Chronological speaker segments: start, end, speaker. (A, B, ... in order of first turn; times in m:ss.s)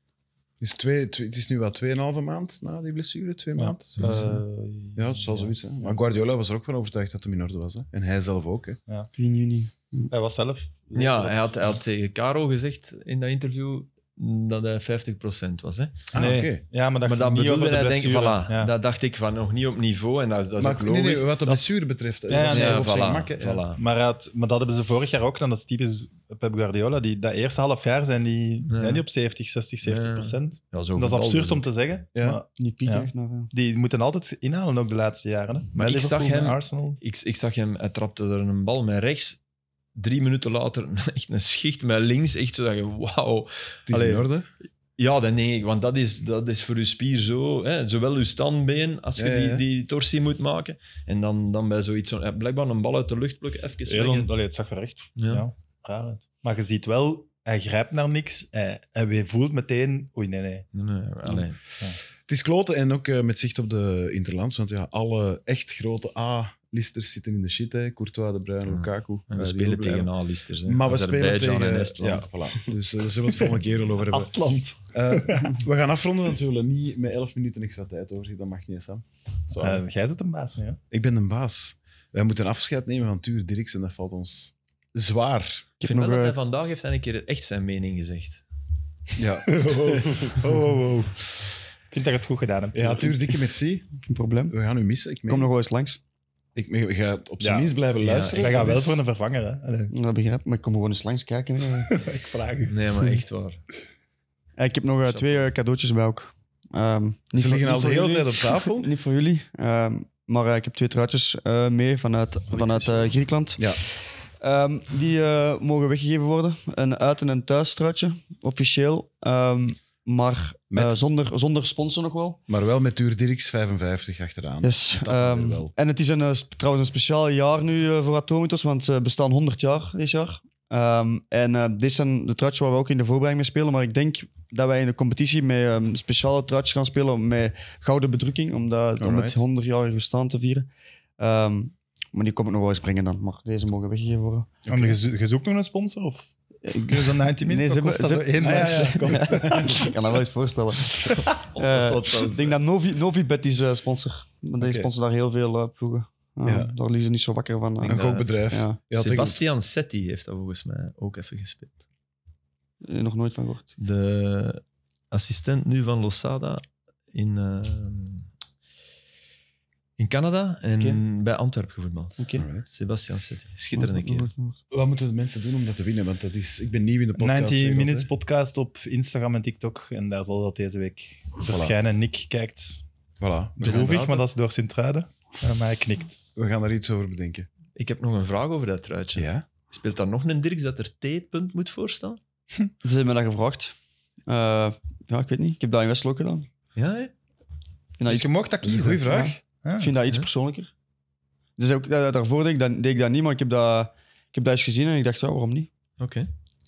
0:00.6-0:04.3 A
0:03.6-0:06.0 B
0:04.0-0:04.4 C
0:05.0-0:08.8 A
0:09.2-0:10.1 D
0:10.1-0:11.6 B
0:10.9-0:16.1 C
0:16.1-0:16.6 A
0:16.2-0:18.7 B
0:17.0-0:21.4 C
0:20.6-0:23.6 A
0:22.3-0:22.9 B
0:22.4-0:23.8 C
0:23.8-0:37.0 B
0:28.7-0:29.0 C
0:29.8-0:31.7 C
0:32.2-0:32.4 A
0:32.6-0:33.5 D
0:35.8-0:39.4 C
0:40.0-0:44.3 C
0:43.9-0:44.5 A
0:45.0-0:54.3 C
0:49.2-0:49.6 A
0:53.9-1:00.7 B
0:55.2-0:55.4 C
1:00.7-1:01.6 C
1:02.3-1:10.1 A
1:08.7-1:12.3 C
1:10.7-1:19.8 A
1:14.1-1:15.6 B
1:19.6-1:20.8 B
1:20.9-1:25.7 A
1:25.8-1:26.4 D
1:25.8-1:28.4 C
1:29.2-1:30.3 A
1:29.5-1:31.3 B
1:31.9-1:33.3 B
1:32.7-1:33.9 A
1:34.1-1:34.6 D
1:34.5-1:35.5 A
1:35.3-1:36.0 D
1:36.6-1:39.0 A
1:37.4-1:37.7 B
1:38.0-1:38.8 C
1:38.4-1:39.9 B
1:39.9-1:42.0 D
1:41.9-1:42.8 B
1:42.7-1:43.6 C
1:44.6-2:02.4 D
1:45.0-1:45.5 C
1:47.3-1:48.9 A
1:52.5-1:53.1 B
2:00.7-2:01.0 A
2:02.5-2:05.7 A
2:04.6-2:20.7 D
2:19.0-2:19.4 A
2:21.2-2:24.5 D
2:24.7-2:25.0 A
2:24.7-2:29.8 B
2:26.6-2:38.8 D
2:28.3-2:29.9 A
2:31.0-2:32.6 C
2:34.6-2:34.9 A
2:36.4-2:36.7 A
2:37.8-2:38.4 C
2:37.9-2:39.4 A
2:38.9-2:41.8 C
2:42.8-2:43.7 D
2:43.8-2:48.3 C
2:50.0-2:54.3 C
2:52.4-2:52.6 A
2:53.8-2:54.6 D
2:54.7-2:58.1 A
2:57.2-3:02.9 B
3:01.5-3:01.8 A
3:03.2-3:03.9 A
3:03.6-3:06.2 B
3:03.6-3:04.3 C
3:06.4-3:07.5 A
3:07.8-3:12.2 C
3:09.2-3:09.5 A
3:12.8-3:13.8 D
3:14.3-3:16.5 D
3:16.8-3:17.1 C
3:18.0-3:18.3 D
3:18.0-3:20.0 B
3:18.6-3:19.4 A
3:19.0-3:20.7 D
3:21.6-3:25.7 D
3:26.0-3:26.3 C